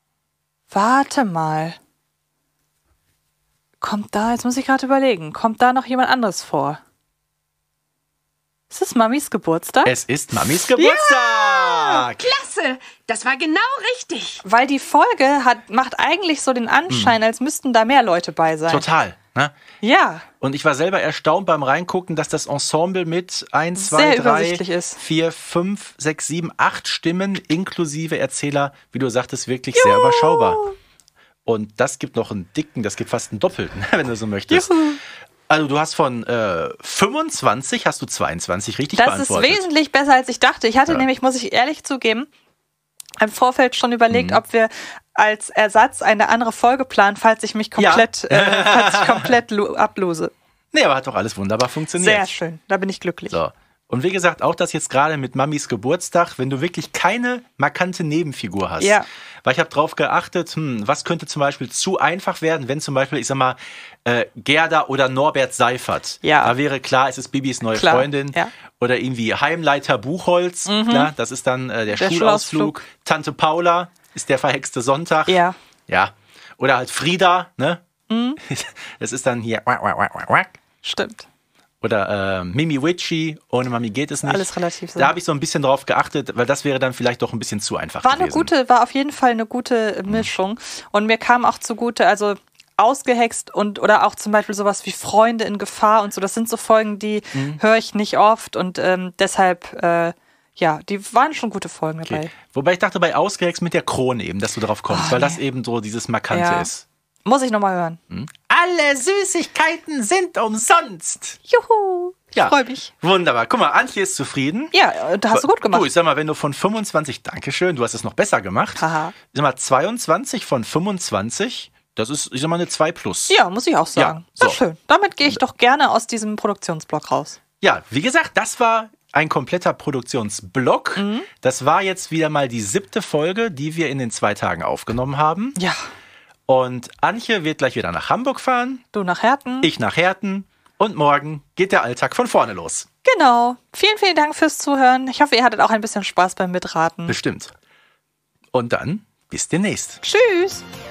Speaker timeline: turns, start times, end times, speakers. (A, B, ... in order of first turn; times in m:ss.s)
0:00.7-0:01.8 A
0:03.8-0:06.8 A
0:08.7-0:10.0 A
0:09.8-0:12.3 B
0:10.7-0:12.0 A
0:12.2-0:14.4 C
0:14.4-0:18.9 A
0:16.9-0:17.2 B
0:18.7-0:19.5 B
0:19.8-0:20.3 A
0:20.4-0:30.7 B
0:23.8-0:25.0 A
0:29.8-0:30.8 A
0:31.5-0:34.8 B
0:34.5-0:35.0 A
0:35.5-0:39.7 B
0:38.9-0:42.3 A
0:43.2-0:50.3 A
0:44.1-0:44.4 B
0:47.8-0:49.3 B
0:50.7-0:52.3 B
0:52.0-0:53.4 A
0:53.3-1:17.8 B
0:58.8-0:59.1 A
1:06.2-1:06.5 A
1:07.7-1:08.5 A
1:10.7-1:11.1 A
1:11.9-1:12.8 A
1:15.3-1:15.6 A
1:18.1-1:18.4 A
1:18.4-1:20.6 B
1:20.8-1:21.3 A
1:21.8-1:28.5 B
1:24.2-1:25.1 A
1:28.0-1:42.3 A
1:37.3-1:37.6 B
1:42.0-1:46.9 B
1:44.9-1:45.4 A
1:46.3-1:46.7 A
1:47.2-1:48.0 A
1:48.1-1:51.4 B
1:51.5-1:52.9 A
1:52.3-1:54.7 B
1:54.7-1:55.9 A
1:55.3-2:03.4 B
1:58.8-1:59.1 A
2:03.3-2:07.4 A
2:04.0-2:04.6 B
2:07.6-2:15.6 B
2:11.0-2:11.3 A
2:15.6-2:15.8 A
2:16.5-2:18.8 B
2:18.9-2:19.7 A
2:19.6-2:22.9 B
2:23.0-2:27.2 A
2:27.1-2:27.5 B
2:28.5-2:30.0 B
2:30.0-2:30.6 A